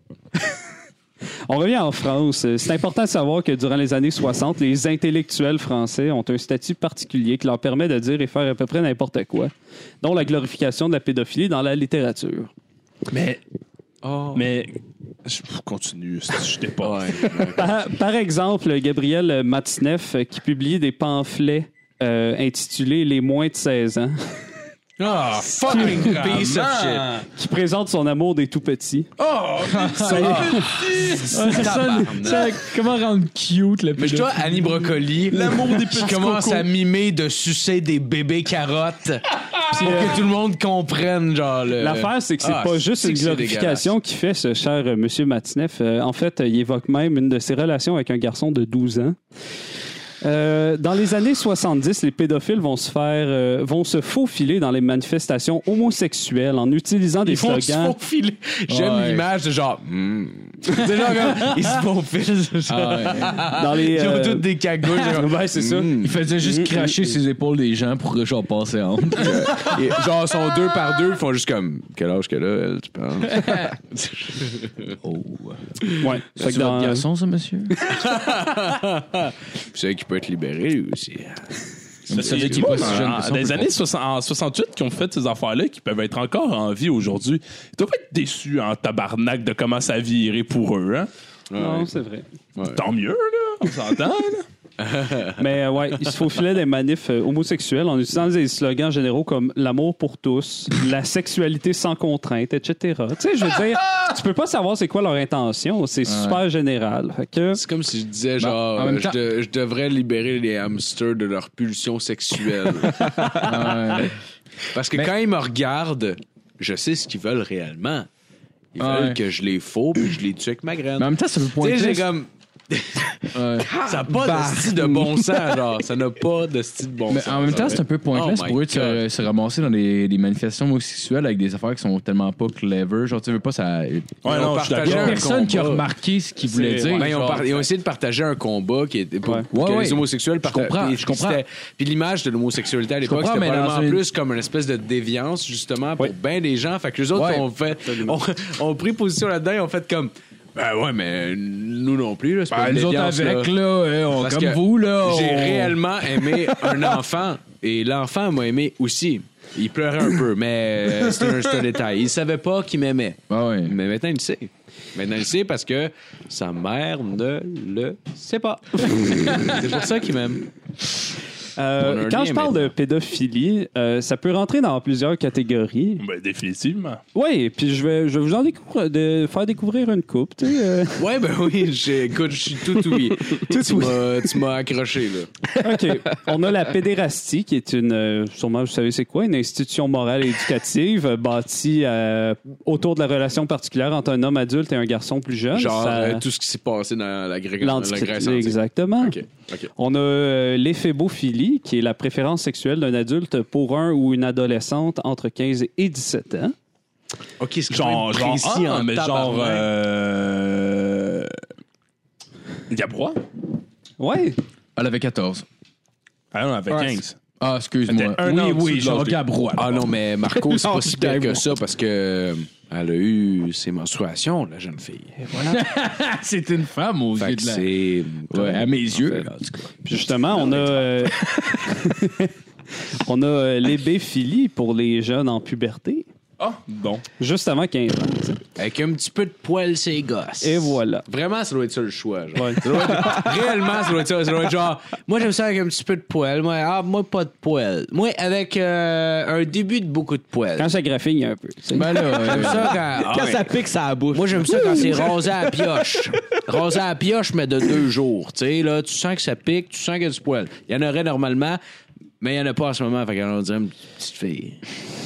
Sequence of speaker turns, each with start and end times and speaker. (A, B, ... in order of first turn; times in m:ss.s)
0:01.5-0:12.5 A
0:13.1-0:13.4 B
0:14.0-0:14.5 C
0:14.3-0:14.7 B
0:15.2-0:17.5 B
0:16.8-0:17.7 C
0:17.5-0:24.4 A
0:25.0-0:27.2 C
0:25.6-0:27.2 B
0:25.6-0:26.2 A
0:27.4-0:29.1 A
0:29.2-0:31.3 B
0:29.5-0:34.8 D
0:30.0-0:30.9 A
0:30.7-0:32.5 C
0:34.0-0:43.9 C
0:35.3-0:36.7 B
0:39.8-0:40.2 A
0:41.8-0:49.2 A
0:50.2-0:58.0 A
0:57.2-1:06.2 C
0:58.7-0:59.2 D
1:02.7-1:03.4 D
1:03.5-1:07.1 A
1:06.0-1:09.8 D
1:09.2-1:14.9 C
1:13.3-1:13.7 D
1:15.0-1:15.6 D
1:16.0-1:17.0 A
1:16.4-1:17.8 D
1:17.8-1:21.5 C
1:22.1-1:23.7 D
1:22.1-1:31.1 B
1:31.5-1:31.9 C
1:31.6-1:32.2 A
1:32.6-1:32.8 C
1:32.7-1:34.4 B
1:34.8-1:35.4 C
1:35.4-1:47.6 A
1:46.0-1:46.4 D
1:47.5-1:53.7 C
1:48.4-1:49.2 D
1:53.3-1:54.1 D
1:54.7-1:58.1 C
1:58.7-2:09.0 C
1:58.8-1:59.2 D
2:01.0-2:02.1 D
2:03.3-2:05.2 D
2:07.1-2:14.2 D
2:14.2-2:15.3 B
2:14.2-2:15.8 C
2:14.8-2:17.6 D
2:16.5-2:17.4 B
2:16.9-2:33.5 C
2:19.5-2:21.4 D
2:23.0-2:24.0 D
2:27.1-2:27.4 D
2:32.5-2:35.8 D
2:34.2-2:50.5 C
2:43.3-2:43.7 D
2:51.6-2:56.0 A
2:51.8-2:52.7 C
2:56.0-2:57.0 B
2:57.1-3:01.0 A
3:01.0-3:05.4 C
3:05.6-3:16.2 A
3:15.5-3:19.7 C
3:17.6-3:19.2 A
3:19.8-3:26.5 A
3:27.4-3:29.7 C
3:27.7-3:31.4 B
3:32.7-3:33.2 B
3:34.0-3:34.4 A
3:34.8-3:35.4 D
3:36.3-3:37.2 B
3:37.4-3:39.9 D
3:37.9-3:39.2 B
3:39.6-3:45.2 C
3:45.2-3:45.6 A
3:45.4-3:47.7 D
3:47.2-3:49.7 C
3:48.3-3:49.6 D
3:49.8-3:52.3 A
3:52.9-3:56.0 A
3:56.4-3:57.0 B
3:57.2-3:58.4 A
3:58.6-4:10.7 C
4:00.4-4:01.0 A
4:02.4-4:03.2 A
4:10.6-4:12.4 A
4:11.7-4:12.8 D
4:12.1-4:13.6 C
4:12.9-4:15.7 E
4:14.1-4:21.6 C
4:22.2-4:24.7 C